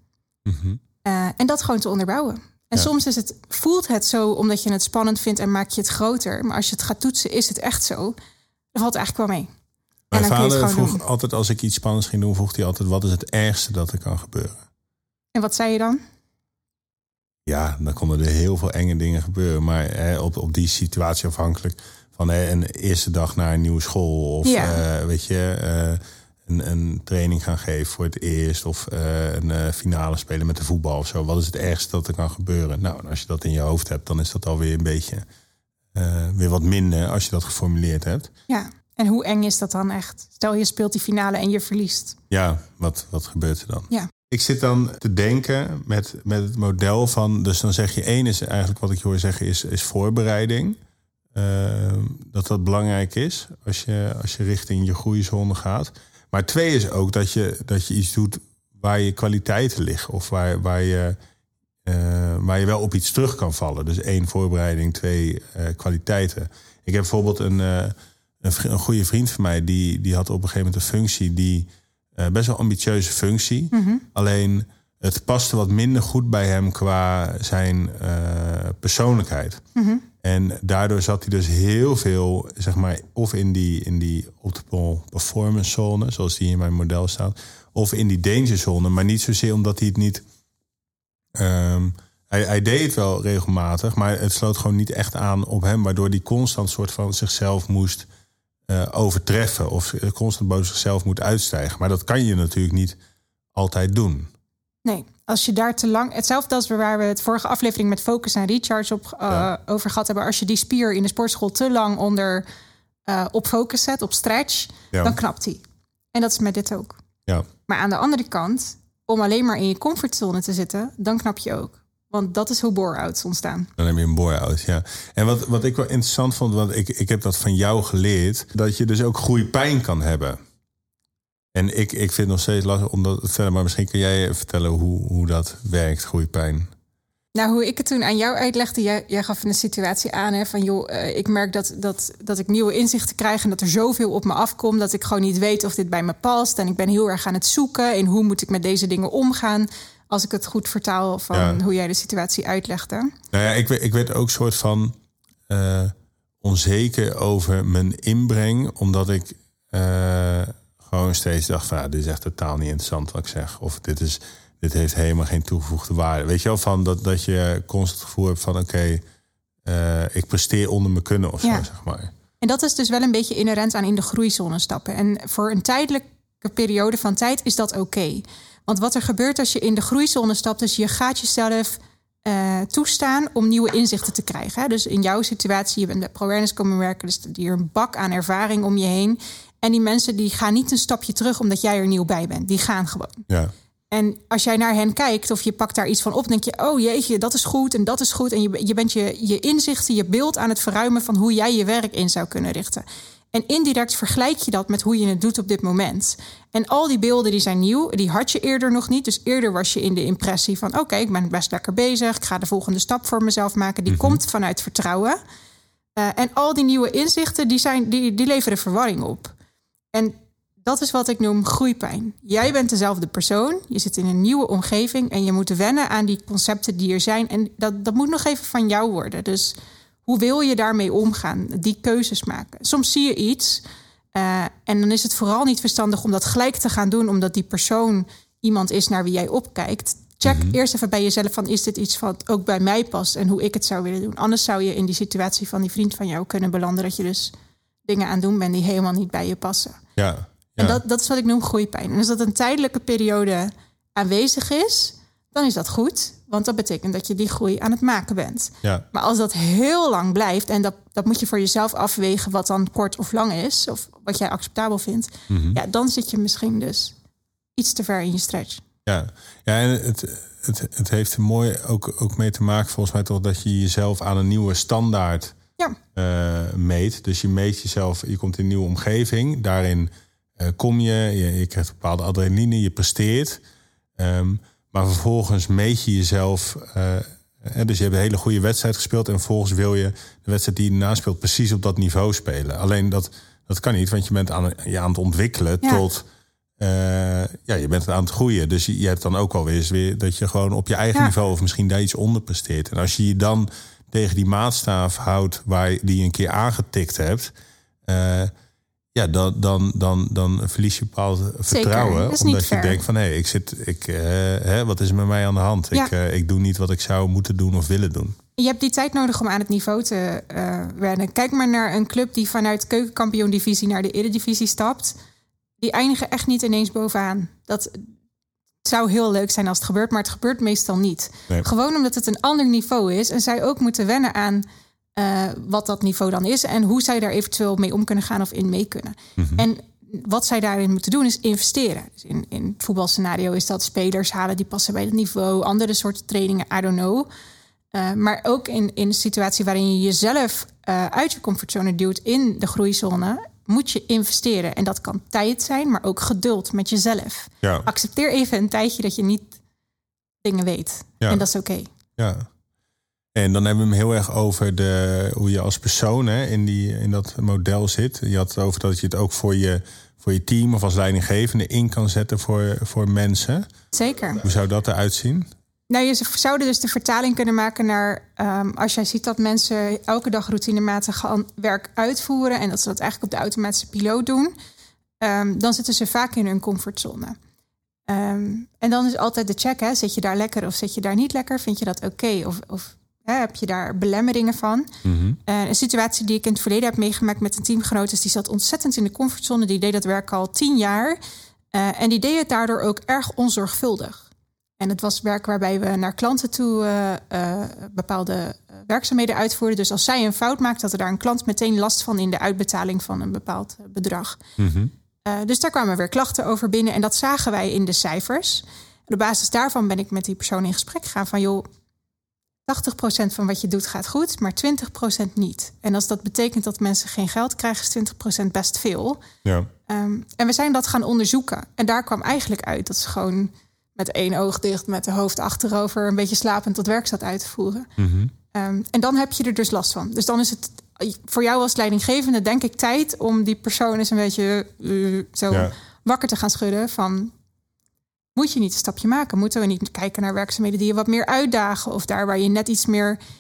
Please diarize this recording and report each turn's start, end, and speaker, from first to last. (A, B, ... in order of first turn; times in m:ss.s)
0:00.4-0:00.8 A
0:01.0-0:08.1 B
0:08.7-0:09.5 B
0:10.1-0:14.6 A
0:10.1-0:11.0 B
0:15.4-0:16.0 B
0:17.5-0:35.2 A
0:24.4-0:24.8 B
0:35.9-0:38.3 A
0:38.5-0:42.2 B
0:42.3-0:50.8 A
0:51.3-1:01.2 A
1:01.8-1:19.6 A
1:13.7-1:14.0 B
1:19.8-1:20.0 B
1:20.2-1:30.2 A
1:31.4-1:38.1 A
1:38.7-1:43.0 A
1:43.6-1:44.3 A
1:44.8-1:52.4 B
1:53.1-1:55.6 B
1:54.9-1:55.2 A
1:56.1-1:57.0 B
1:57.6-2:03.7 B
2:03.8-2:10.4 A
2:11.5-2:16.7 A
2:17.4-2:33.1 B
2:31.3-2:31.6 A
2:33.3-2:35.0 A
2:35.5-2:49.0 A
2:49.6-2:52.1 A
2:52.4-3:13.3 B
3:13.9-3:35.2 B
3:33.9-3:34.2 A
3:36.0-3:39.4 B
3:39.9-3:53.6 B
3:54.1-4:07.3 B
4:00.2-4:00.6 A
4:07.9-4:09.8 B
4:10.0-4:10.8 A
4:10.6-4:27.0 B
4:25.3-4:25.6 A
4:27.6-4:28.6 B
4:28.9-4:35.4 A
4:35.9-4:43.4 A
4:44.0-4:56.0 A
4:56.6-5:07.3 A
5:07.8-5:08.3 A
5:09.0-5:18.2 A
5:11.5-5:12.8 B
5:18.4-5:25.0 B
5:25.6-5:27.9 B
5:28.6-5:34.4 B
5:35.0-5:47.1 B
5:39.2-5:39.4 A
5:47.7-5:59.4 B
5:57.4-5:57.7 A
6:00.2-6:01.7 B
6:02.0-6:02.3 A
6:03.2-6:13.5 A
6:13.7-6:14.2 B
6:14.2-6:15.3 A
6:15.7-6:24.3 B
6:25.0-6:27.2 B
6:27.9-6:34.7 B
6:34.8-6:35.2 A
6:35.2-6:41.0 B
6:41.5-6:44.1 B
6:44.6-6:54.2 B
6:54.4-6:54.7 A
6:55.0-7:01.5 B
7:02.5-7:09.0 B
7:09.2-7:09.5 A
7:09.7-7:17.7 B
7:17.8-7:18.1 A
7:18.3-7:27.1 B
7:25.3-7:25.5 A
7:28.2-7:33.0 B